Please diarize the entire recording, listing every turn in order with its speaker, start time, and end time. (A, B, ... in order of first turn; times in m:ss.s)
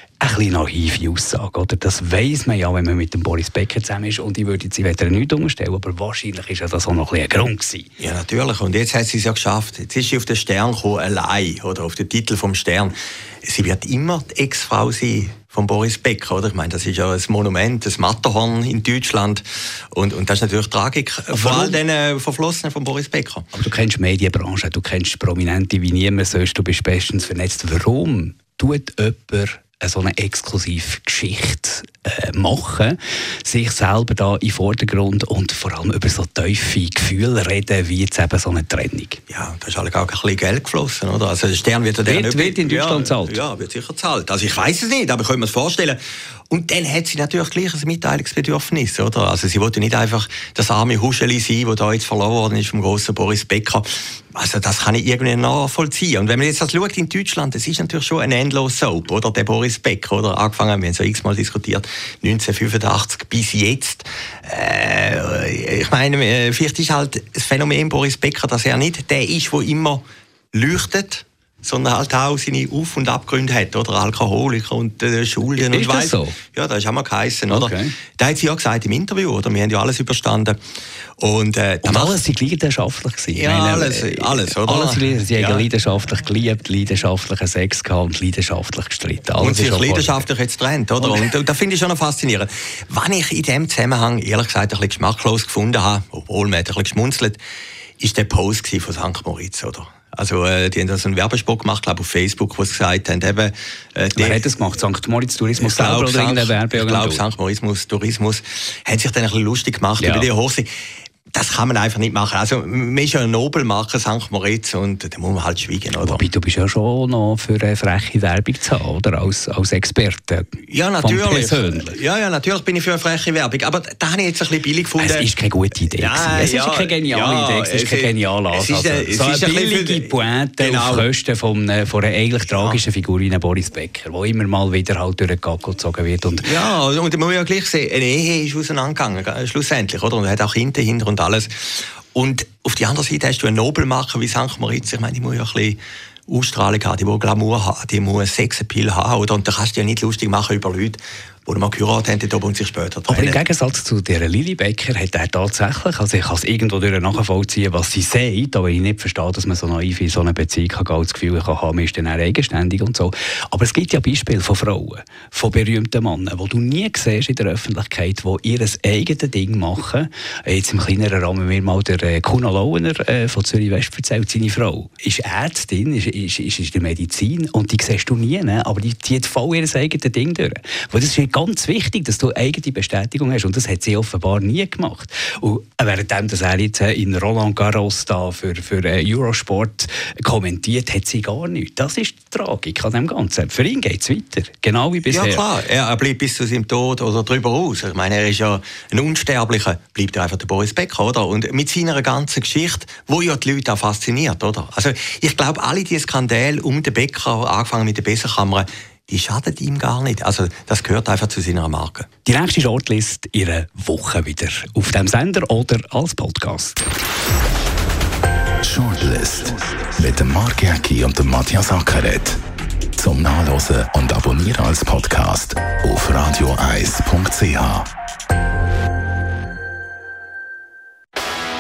0:00.2-0:07.9 A
0:08.0-0:23.4 B
0:21.3-0:21.8 A
0:23.5-0:39.2 A
0:39.3-1:20.6 B
0:42.0-0:43.4 A
1:15.7-1:16.4 A
1:17.5-1:17.9 A
1:21.2-1:22.2 B
1:21.8-1:30.3 A
1:23.4-1:25.6 B
1:29.4-1:37.4 B
1:31.0-1:31.3 A
1:38.0-1:44.4 B
1:44.2-1:47.2 A
1:45.6-1:50.7 B
1:50.0-1:50.3 A
1:51.3-1:56.2 B
1:56.0-2:02.0 A
2:00.7-2:05.3 B
2:05.0-2:16.6 A
2:05.9-2:11.1 B
2:12.5-2:12.8 B
2:16.4-2:33.4 B
2:33.1-3:15.4 A
3:15.1-3:32.1 B
3:32.3-3:36.8 A
3:38.6-3:42.4 C
3:43.0-3:47.9 C